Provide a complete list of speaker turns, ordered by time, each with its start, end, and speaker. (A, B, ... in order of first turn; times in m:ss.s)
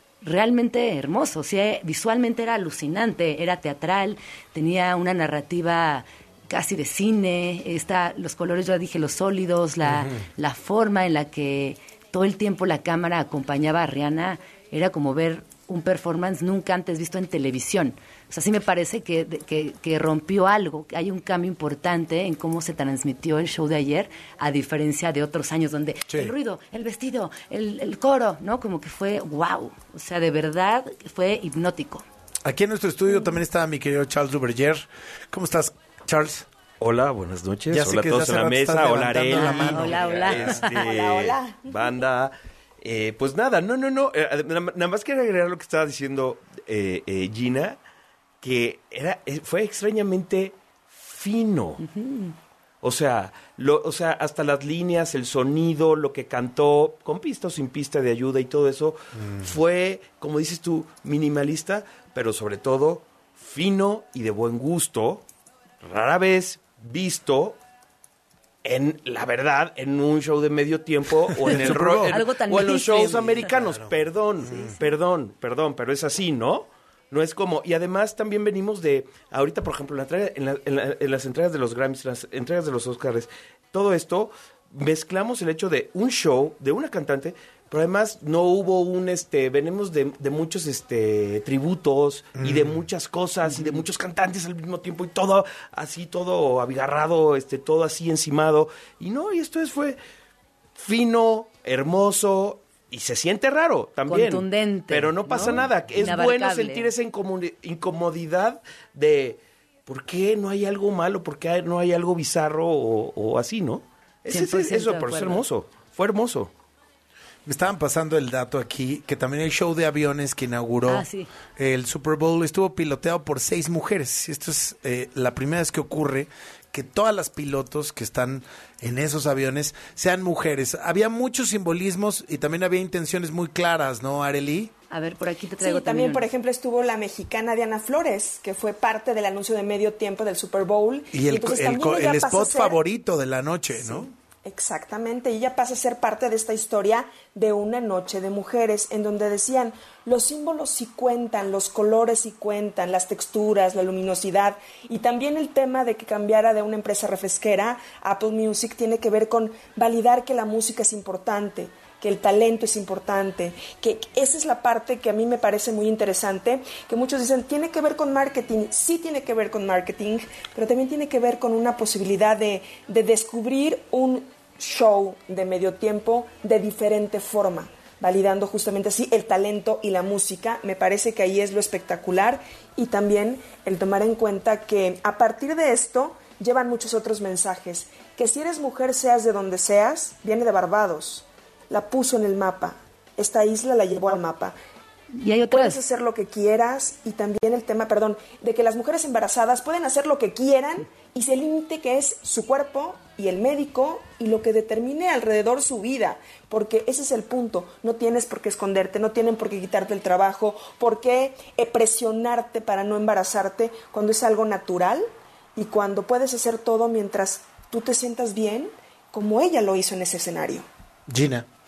0:00.2-0:32.0 A
0:09.8-0:10.2 B
0:32.4-0:36.5 B
0:36.8-0:47.8 C
0:37.7-0:40.4 B
0:39.3-0:40.9 A
0:40.6-0:42.0 D
0:48.4-0:51.8 C
0:51.8-0:52.3 A
0:52.8-1:05.2 C
0:59.2-0:59.4 B
1:05.8-1:07.6 C
1:08.6-1:40.0 C
1:11.4-1:12.2 B
1:11.4-1:13.6 A
1:13.5-1:14.8 B
1:14.4-1:14.7 A
1:32.4-1:32.8 B
1:33.4-1:33.8 A
1:40.8-1:56.5 C
1:44.0-1:46.9 A
1:54.3-1:55.4 A
1:57.4-2:14.7 B
2:00.9-2:01.3 A
2:14.9-2:16.3 A
2:15.6-2:22.8 D
2:21.1-2:24.1 B
2:23.8-3:14.6 D
3:15.1-3:15.8 A
3:15.5-3:40.7 D
3:41.1-3:41.4 B